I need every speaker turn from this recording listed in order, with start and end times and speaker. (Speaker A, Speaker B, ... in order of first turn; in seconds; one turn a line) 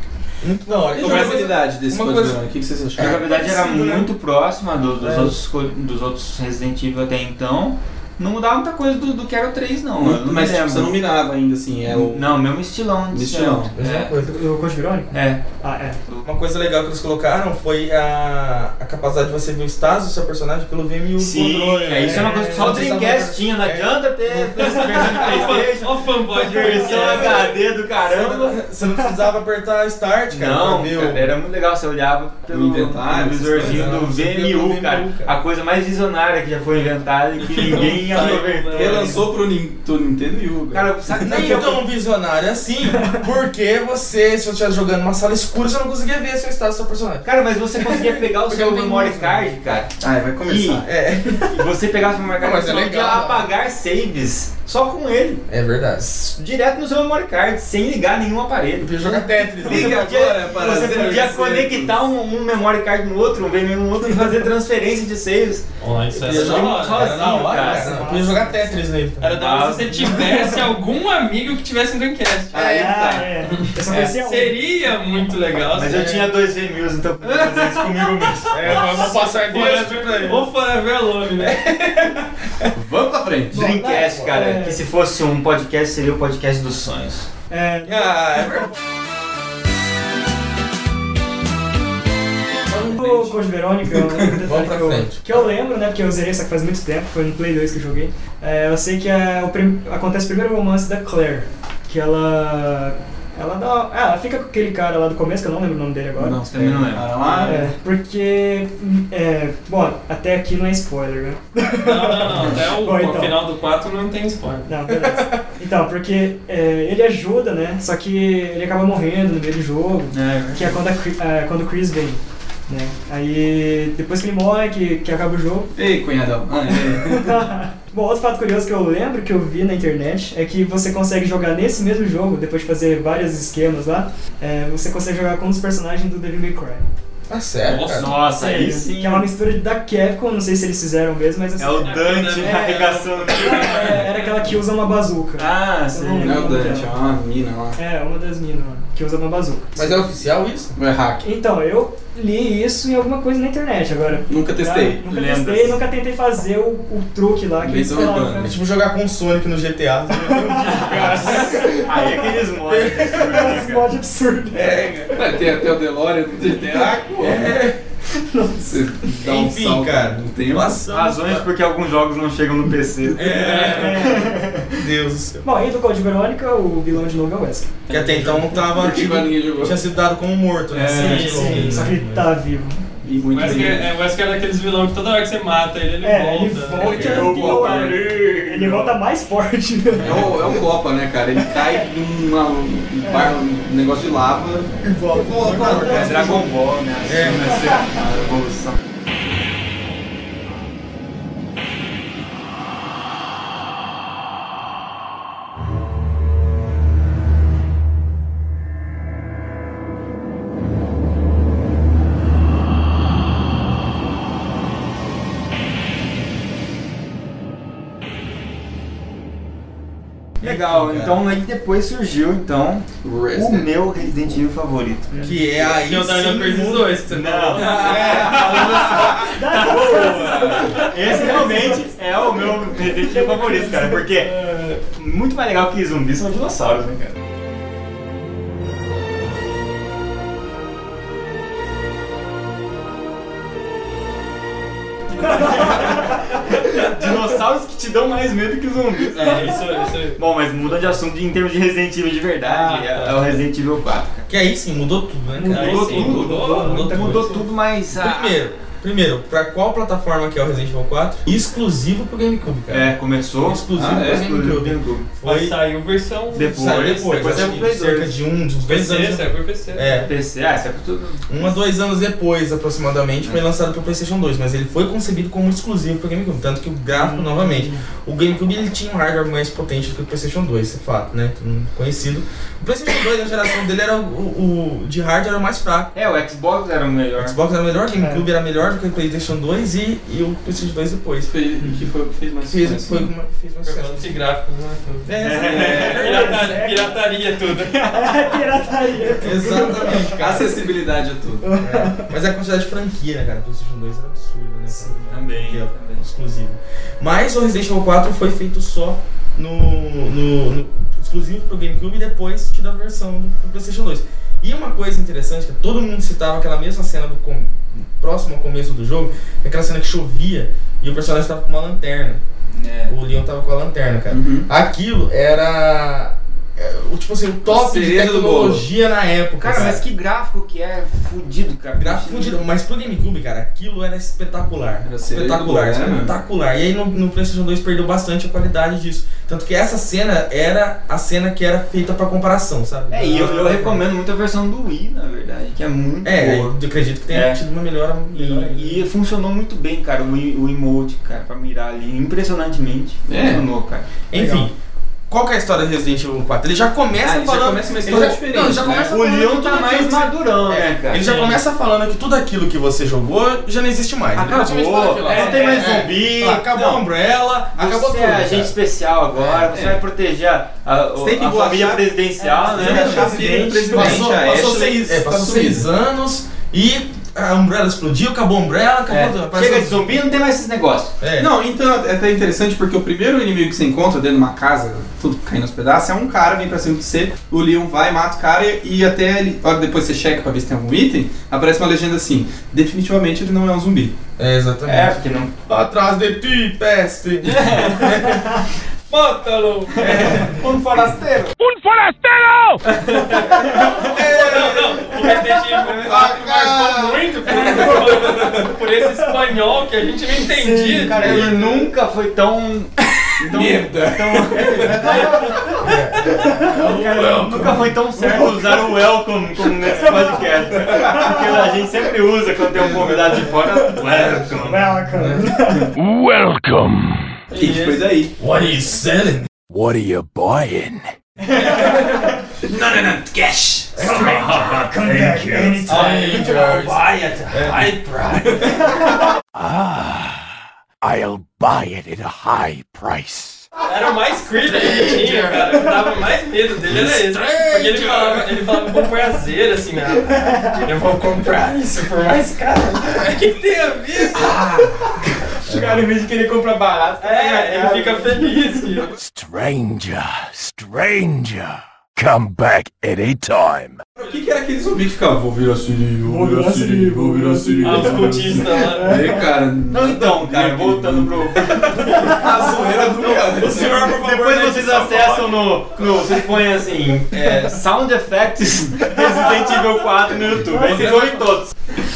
Speaker A: 0.4-2.4
Speaker B: 0.9-3.3
Speaker A: 3.0-4.1
Speaker C: 3.0-11.0
Speaker A: 5.0-5.3
Speaker B: 10.0-12.3
Speaker C: 11.9-14.1
Speaker B: 13.1-13.8
Speaker A: 13.8-14.4
Speaker D: 14.2-16.0
Speaker C: 15.1-15.4
Speaker A: 16.2-24.0
Speaker C: 21.2-28.6
Speaker D: 22.0-22.9
Speaker E: 24.6-27.6
Speaker A: 28.0-31.3
Speaker C: 30.3-39.2
Speaker B: 32.5-34.0
Speaker A: 33.6-35.4
Speaker E: 37.4-39.2
Speaker B: 38.0-40.9
Speaker C: 40.7-41.8
Speaker A: 41.2-49.5
Speaker C: 47.2-50.9
Speaker B: 50.0-50.8
Speaker A: 50.6-51.6
Speaker C: 51.5-55.4
Speaker A: 52.4-53.5
Speaker A: 55.5-56.3
Speaker C: 56.3-68.2
Speaker A: 58.8-60.1
Speaker B: 59.6-62.0
Speaker E: 65.8-67.5
Speaker A: 66.2-69.5
Speaker D: 67.5-68.6
Speaker E: 69.2-72.6
Speaker C: 69.3-70.2
Speaker D: 70.2-70.5
Speaker B: 72.5-73.3
Speaker D: 72.5-74.6
Speaker E: 73.5-76.1
Speaker C: 75.7-79.1
Speaker A: 75.9-76.3
Speaker E: 77.3-81.6
Speaker A: 78.5-80.5
Speaker A: 81.4-82.7
Speaker B: 82.7-83.7
Speaker C: 83.5-87.3
Speaker D: 83.5-84.8
Speaker D: 87.5-88.6
Speaker A: 87.8-88.7
Speaker B: 92.7-93.2
Speaker D: 92.8-106.4
Speaker B: 94.0-94.3
Speaker A: 94.5-95.5
Speaker B: 106.2-107.7
Speaker C: 106.5-107.6
Speaker D: 107.4-113.4
Speaker E: 111.8-114.7
Speaker D: 114.7-125.7
Speaker A: 114.9-115.4
Speaker C: 120.1-120.8
Speaker B: 125.8-127.5
Speaker D: 126.7-136.9
Speaker A: 137.3-138.1
Speaker E: 137.7-138.0
Speaker C: 137.9-139.3
Speaker D: 138.3-142.8
Speaker C: 141.6-144.1
Speaker E: 141.8-144.3
Speaker D: 143.4-147.0
Speaker C: 145.4-146.7
Speaker B: 146.2-147.8
Speaker D: 147.8-150.0
Speaker A: 149.8-150.7
Speaker B: 150.8-151.2
Speaker D: 151.2-158.6
Speaker B: 154.3-155.7
Speaker B: 157.6-158.5
Speaker A: 158.1-161.8
Speaker D: 160.2-161.9
Speaker C: 160.7-163.8
Speaker A: 162.6-163.6
Speaker D: 163.1-165.0
Speaker A: 164.5-165.1
Speaker B: 165.1-167.5
Speaker A: 167.2-167.8
Speaker D: 168.2-169.1
Speaker B: 168.7-170.8
Speaker A: 169.2-171.5
Speaker C: 170.9-174.7
Speaker A: 173.1-174.2
Speaker D: 173.4-174.5
Speaker A: 174.7-175.4
Speaker D: 175.4-177.7
Speaker B: 177.9-179.8
Speaker A: 177.9-182.3
Speaker B: 180.7-181.3
Speaker D: 180.9-182.8
Speaker E: 181.0-181.6
Speaker B: 183.0-183.9
Speaker E: 183.3-187.5
Speaker D: 186.0-190.4
Speaker B: 186.8-188.0
Speaker C: 186.8-188.9
Speaker A: 186.9-187.1
Speaker B: 190.0-196.5
Speaker D: 193.0-193.3
Speaker A: 194.8-196.5
Speaker C: 195.7-198.8
Speaker A: 197.1-197.6
Speaker C: 220.4-225.7
Speaker A: 220.4-221.2
Speaker B: 223.0-223.7
Speaker D: 225.1-225.4
Speaker A: 225.2-228.9
Speaker E: 225.7-231.3
Speaker C: 227.1-237.2
Speaker B: 227.8-229.2
Speaker D: 229.2-231.8
Speaker B: 229.9-230.8
Speaker D: 232.8-234.8
Speaker C: 245.2-249.6
Speaker D: 245.3-245.6
Speaker E: 249.1-251.0
Speaker C: 250.2-254.3
Speaker E: 252.4-253.4
Speaker A: 254.3-257.4
Speaker D: 255.3-257.4
Speaker C: 255.5-258.5
Speaker E: 255.5-257.0
Speaker A: 257.9-265.6
Speaker C: 262.7-265.1
Speaker B: 263.7-264.3
Speaker E: 265.2-267.6
Speaker C: 266.3-268.1
Speaker A: 266.4-270.1
Speaker E: 268.6-270.1
Speaker C: 270.0-271.6
Speaker A: 271.3-285.9
Speaker D: 276.9-277.9
Speaker C: 285.9-287.4
Speaker A: 287.2-291.3
Speaker D: 288.0-288.3
Speaker B: 291.3-293.0
Speaker A: 292.5-294.1
Speaker E: 293.6-298.2
Speaker A: 295.1-296.5
Speaker C: 295.2-296.0
Speaker B: 295.6-295.9
Speaker D: 295.7-297.0
Speaker D: 297.6-300.1
Speaker A: 299.1-300.6
Speaker B: 300.0-301.6
Speaker D: 301.4-302.1
Speaker A: 301.6-322.2
Speaker C: 305.0-306.0
Speaker C: 322.5-323.0
Speaker A: 322.9-329.8
Speaker B: 324.1-324.5
Speaker B: 327.5-328.6
Speaker C: 329.4-332.4
Speaker A: 331.8-343.8
Speaker B: 334.8-336.1
Speaker C: 342.9-346.5
Speaker A: 346.0-348.9
Speaker C: 347.1-347.4
Speaker C: 348.1-353.9
Speaker B: 353.1-353.4
Speaker A: 354.1-354.5
Speaker D: 354.1-354.5
Speaker A: 355.1-368.5
Speaker B: 357.0-359.0
Speaker C: 358.8-361.1
Speaker E: 361.0-361.4
Speaker C: 364.1-366.5
Speaker E: 365.0-365.8
Speaker B: 366.5-366.8
Speaker C: 367.6-373.9
Speaker B: 369.3-369.8
Speaker B: 371.0-371.9
Speaker D: 372.2-374.0
Speaker B: 372.5-375.7
Speaker A: 372.5-379.9
Speaker C: 378.9-381.0
Speaker A: 381.0-381.3
Speaker B: 381.2-393.9
Speaker A: 394.2-398.4
Speaker C: 394.7-395.3
Speaker C: 397.3-397.8
Speaker E: 398.9-400.1
Speaker C: 399.7-401.3
Speaker A: 399.8-400.4
Speaker F: 401.4-402.6
Speaker E: 402.7-411.2
Speaker A: 403.5-405.2
Speaker B: 405.6-406.6
Speaker A: 405.7-408.1
Speaker B: 407.7-408.4
Speaker C: 410.3-424.8
Speaker A: 410.9-411.7
Speaker B: 413.2-415.0
Speaker A: 415.6-417.6
Speaker F: 416.9-417.5
Speaker A: 422.6-423.4
Speaker A: 423.9-424.1
Speaker D: 424.4-425.7
Speaker A: 424.9-425.5
Speaker F: 425.7-427.2
Speaker E: 427.3-427.8
Speaker B: 427.3-428.1
Speaker A: 428.2-429.3
Speaker F: 429.5-430.9
Speaker B: 431.5-433.9
Speaker A: 433.8-437.7
Speaker F: 433.9-435.6
Speaker D: 433.9-435.9
Speaker E: 435.7-438.8
Speaker F: 439.4-440.2
Speaker F: 440.8-443.5
Speaker E: 443.6-454.4
Speaker A: 444.9-445.2
Speaker A: 446.7-448.3
Speaker D: 450.2-450.6
Speaker C: 454.1-458.2
Speaker A: 455.5-455.8
Speaker E: 457.0-458.9
Speaker F: 458.9-463.8
Speaker B: 464.0-475.1
Speaker D: 466.0-469.1
Speaker E: 467.6-469.0
Speaker C: 469.7-472.3
Speaker A: 473.2-475.1
Speaker C: 473.5-481.5
Speaker B: 480.6-481.2